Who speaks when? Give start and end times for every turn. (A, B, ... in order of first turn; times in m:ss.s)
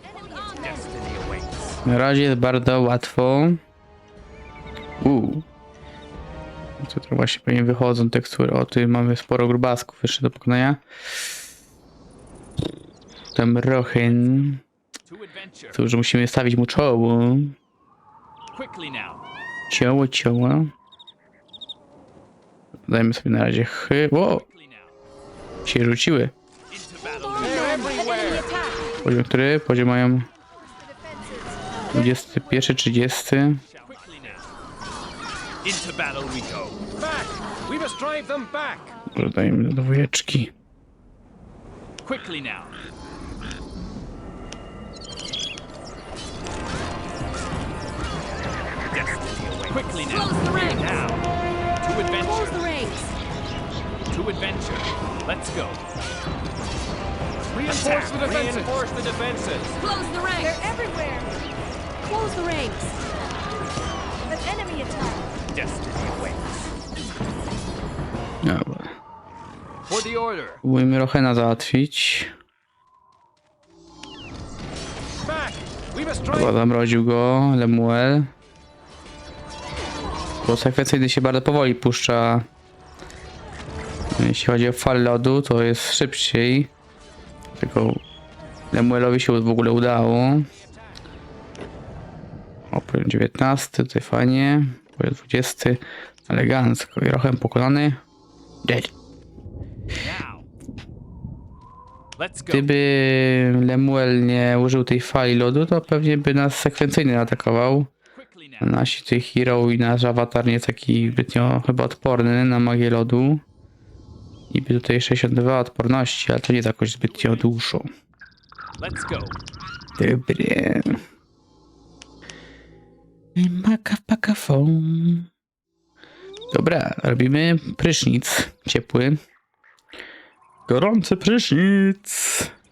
0:00.2-0:00.8 A
0:00.5-0:00.8 B
0:00.6-0:01.8 C
0:01.8-0:03.6 D
0:05.0-0:05.4 D
0:06.8-0:10.8 D
0:13.3-0:14.6 D
0:14.0-0:14.5 C
0:15.0-0:15.8 C
0:15.7-0:17.6 D
0:18.5-0:19.2 C
0:19.7-0:20.7 D
0:22.9-0:24.4 D
0:24.2-0:24.9 C
0:25.6-0:26.3 D
0:26.7-0:27.9 C
0:27.4-0:29.0 A
0:29.0-0:30.3 D
0:30.4-0:32.7 A
0:31.9-0:33.6 D
0:33.6-0:34.5 C
0:35.6-0:36.8 C
0:37.0-0:38.9 E
0:39.1-0:40.5 D
0:42.0-0:42.7 C
0:48.9-0:51.2 C
0:50.0-0:51.1 B
0:51.8-0:52.9 C
0:52.2-0:53.2 B
0:54.1-0:55.8 C
0:57.6-0:59.8 E
0:57.6-0:58.8 C
0:59.8-1:00.6 B
1:00.4-1:01.3 A
1:02.1-1:03.0 B
1:04.3-1:05.3 A
1:05.5-1:06.7 C
1:08.4-1:08.9 D
1:09.9-1:10.6 C
1:10.6-1:12.3 D
1:15.2-1:16.5 E
1:16.3-1:18.3 D
1:20.4-1:22.5 D
1:24.1-1:26.7 D
1:27.6-1:28.0 D
1:28.7-1:30.5 D
1:32.7-1:38.0 D
1:38.6-1:38.9 D
1:40.0-1:40.5 C
1:42.2-1:42.7 C
1:42.5-1:47.9 D
1:48.1-1:48.8 C
1:48.6-1:53.4 D
1:54.5-1:57.9 D
1:57.0-1:57.5 C
1:58.8-1:59.4 C
2:00.0-2:01.0 D
2:03.3-2:05.3 D
2:06.5-2:09.2 D
2:10.7-2:12.5 D